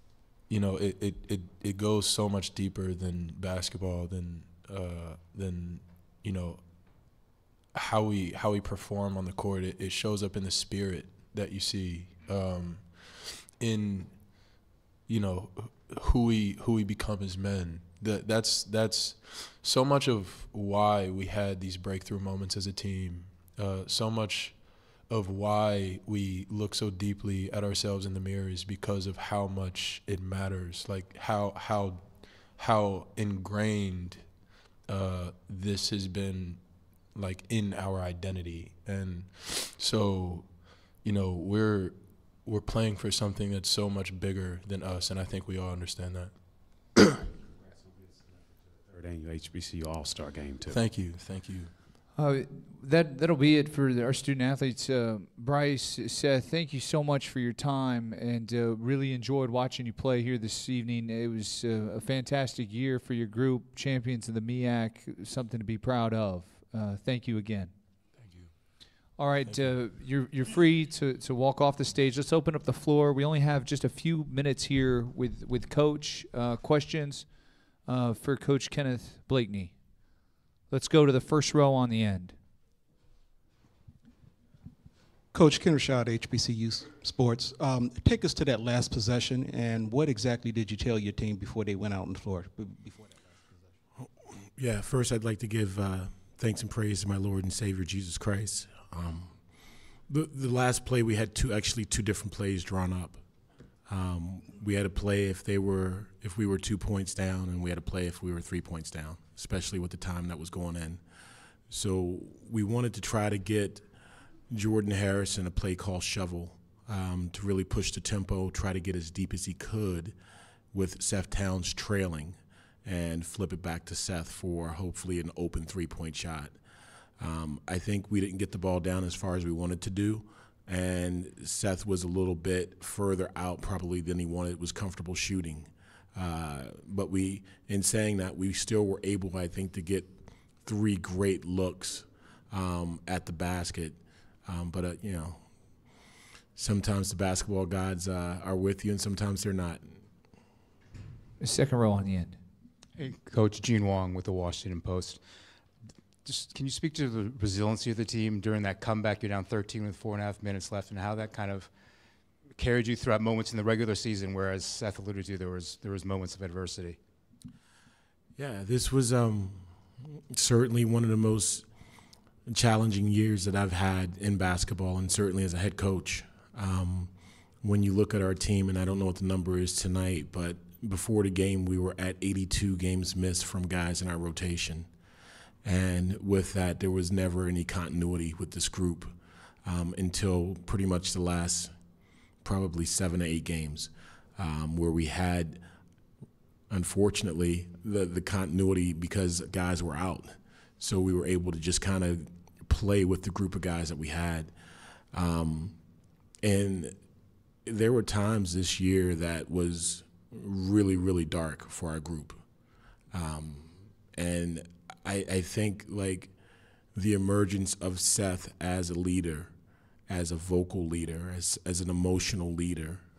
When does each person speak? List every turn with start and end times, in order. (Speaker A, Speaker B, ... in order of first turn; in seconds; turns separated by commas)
Speaker A: 0.5-34.3, Speaker A: 34.9-46.4, Speaker B: 47.6-48.0, Speaker B: 48.8-50.8, Speaker A: 50.6-51.7, Speaker C: 52.1-67.7, Speaker C: 69.2-77.3, Speaker C: 77.8-79.8, Speaker C: 80.7-82.3, Speaker D: 85.3-93.4, Speaker E: 94.5-99.4, Speaker E: 100.1-103.2, Speaker E: 103.9-111.0, Speaker E: 111.7-113.8, Speaker E: 114.5-120.1, Speaker E: 120.7-126.5, Speaker E: 127.2-145.4, Speaker E: 146.6-149.9, Speaker C: 151.4-152.4, Speaker F: 153.0-155.2, Speaker F: 156.2-161.7, Speaker F: 162.6-167.0, Speaker E: 168.4-169.7, Speaker E: 170.2-171.7, Speaker E: 172.5-184.9, Speaker E: 185.6-189.1, Speaker E: 189.6-191.7, Speaker E: 192.4-195.6, Speaker E: 196.7-204.5, Speaker E: 205.1-205.8, Speaker E: 206.4-207.0, Speaker E: 207.7-212.4, Speaker E: 213.1-216.3, Speaker E: 216.9-219.5, Speaker E: 220.1-223.0